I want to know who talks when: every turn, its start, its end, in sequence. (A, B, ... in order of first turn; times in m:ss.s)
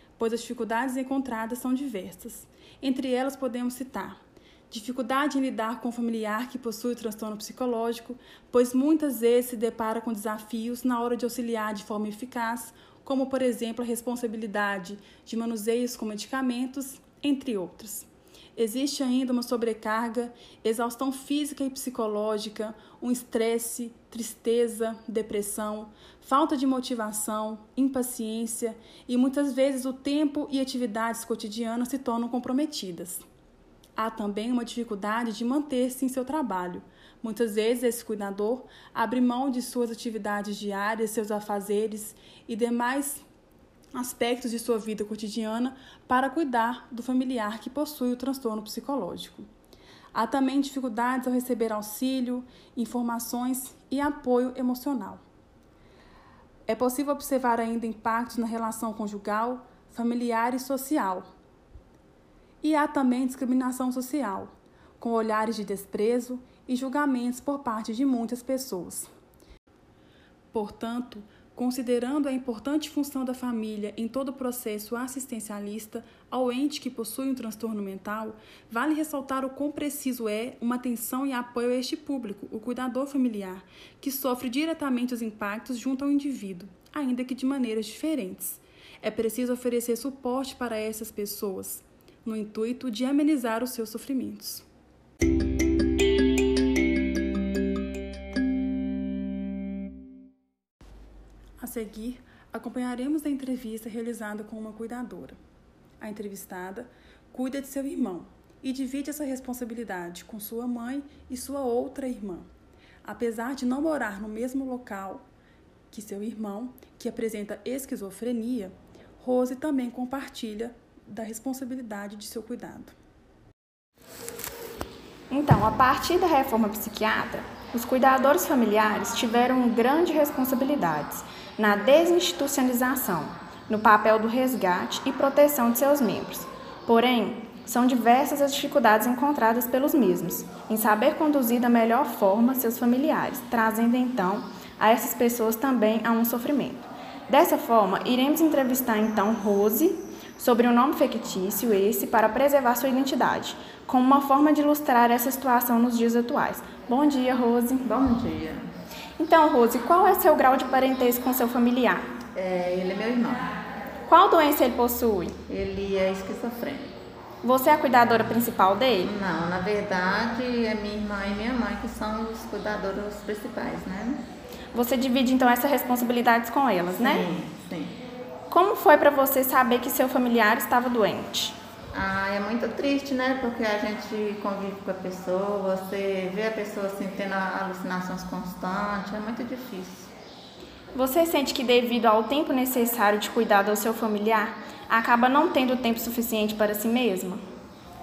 0:00.2-0:33.2 A
0:34.0-0:43.2 A
0:43.9-0:49.5 A
0:50.1-0:55.2 A
0:56.7-1:01.3 A
1:02.6-1:09.1 A
1:10.5-1:34.6 A
1:41.6-1:45.4 A
1:46.0-1:52.5 A
1:53.0-1:55.3 A
1:55.9-2:02.9 A
2:05.3-2:37.9 B
2:37.8-2:38.7 C
2:39.2-2:42.1 B
2:42.3-2:43.5 C
2:44.1-2:45.4 B
2:45.5-2:46.9 C
2:47.4-2:49.1 B
2:49.0-2:54.2 C
2:54.7-2:57.2 B
2:56.9-2:58.0 C
2:58.5-3:01.6 B
3:01.9-3:10.1 C
3:10.9-3:17.4 B